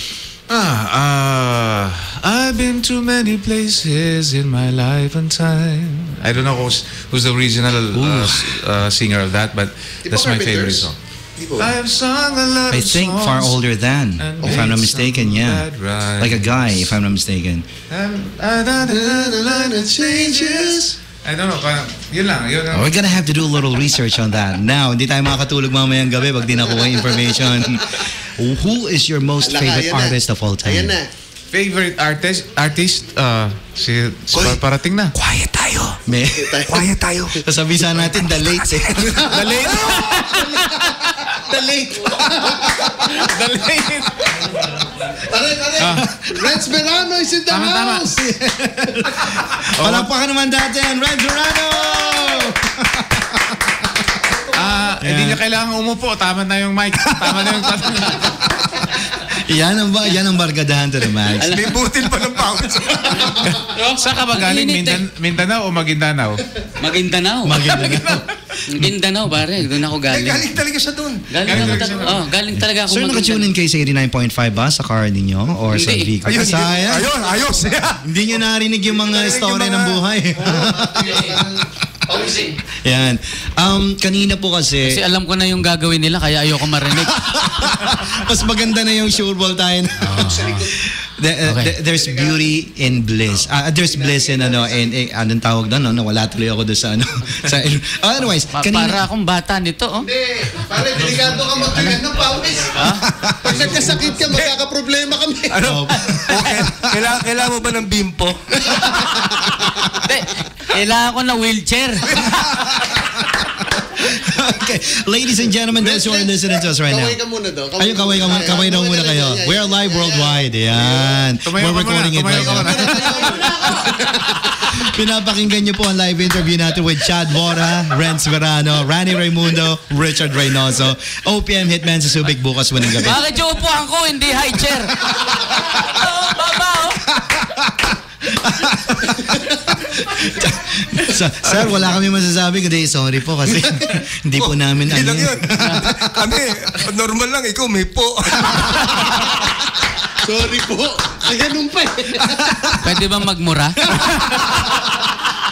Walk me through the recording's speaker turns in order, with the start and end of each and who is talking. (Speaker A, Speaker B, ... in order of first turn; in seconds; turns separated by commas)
Speaker A: 0.5-10.9, Speaker B: 7.9-8.6, Speaker C: 10.1-11.7, Speaker A: 11.6-13.6, Speaker B: 12.7-15.7, Speaker A: 14.2-16.9, Speaker C: 14.4-14.7, Speaker B: 16.2-17.6, Speaker A: 17.9-23.0, Speaker C: 18.8-20.9, Speaker B: 22.7-30.9, Speaker C: 29.4-31.1, Speaker A: 31.5-35.1, Speaker D: 35.1-36.0, Speaker B: 36.1-39.1, Speaker C: 36.3-36.9, Speaker D: 36.7-37.4, Speaker D: 38.5-39.0, Speaker C: 39.0-43.2, Speaker A: 39.2-40.9, Speaker A: 42.7-44.4, Speaker C: 45.2-48.3, Speaker A: 45.8-46.1, Speaker A: 47.5-48.5, Speaker B: 49.0-53.7, Speaker A: 49.8-50.1, Speaker A: 54.5-58.5, Speaker B: 55.0-55.4, Speaker B: 57.1-57.5, Speaker B: 59.2-61.6, Speaker E: 61.4-61.7, Speaker D: 61.5-63.4, Speaker E: 63.7-65.0, Speaker A: 63.9-66.4, Speaker E: 66.8-68.0, Speaker B: 67.4-68.2, Speaker E: 68.7-70.5, Speaker D: 70.1-71.4, Speaker E: 71.3-73.5, Speaker A: 71.4-72.2, Speaker B: 71.5-71.9, Speaker B: 72.5-77.2, Speaker E: 75.7-76.1, Speaker D: 76.2-78.0, Speaker C: 76.4-77.9, Speaker B: 78.0-81.3, Speaker C: 78.9-79.4, Speaker D: 79.1-80.0, Speaker C: 80.4-82.6, Speaker B: 82.8-85.0, Speaker E: 84.8-87.2, Speaker B: 86.8-99.0, Speaker E: 90.0-90.6, Speaker C: 90.1-90.8, Speaker E: 91.5-91.7, Speaker C: 91.8-92.4, Speaker C: 93.8-94.8, Speaker E: 98.5-100.1, Speaker C: 100.0-102.8, Speaker E: 102.7-103.0, Speaker C: 103.4-105.7, Speaker A: 103.7-104.1, Speaker D: 105.5-108.8, Speaker B: 105.6-107.0, Speaker E: 110.0-112.2, Speaker B: 112.3-113.4, Speaker B: 114.0-117.2, Speaker C: 115.8-121.3, Speaker B: 117.8-123.9, Speaker A: 121.4-123.4, Speaker C: 122.3-124.8, Speaker B: 124.7-133.2, Speaker E: 133.0-137.0, Speaker B: 137.2-146.1, Speaker D: 144.4-149.2, Speaker C: 150.2-152.8, Speaker E: 152.8-153.8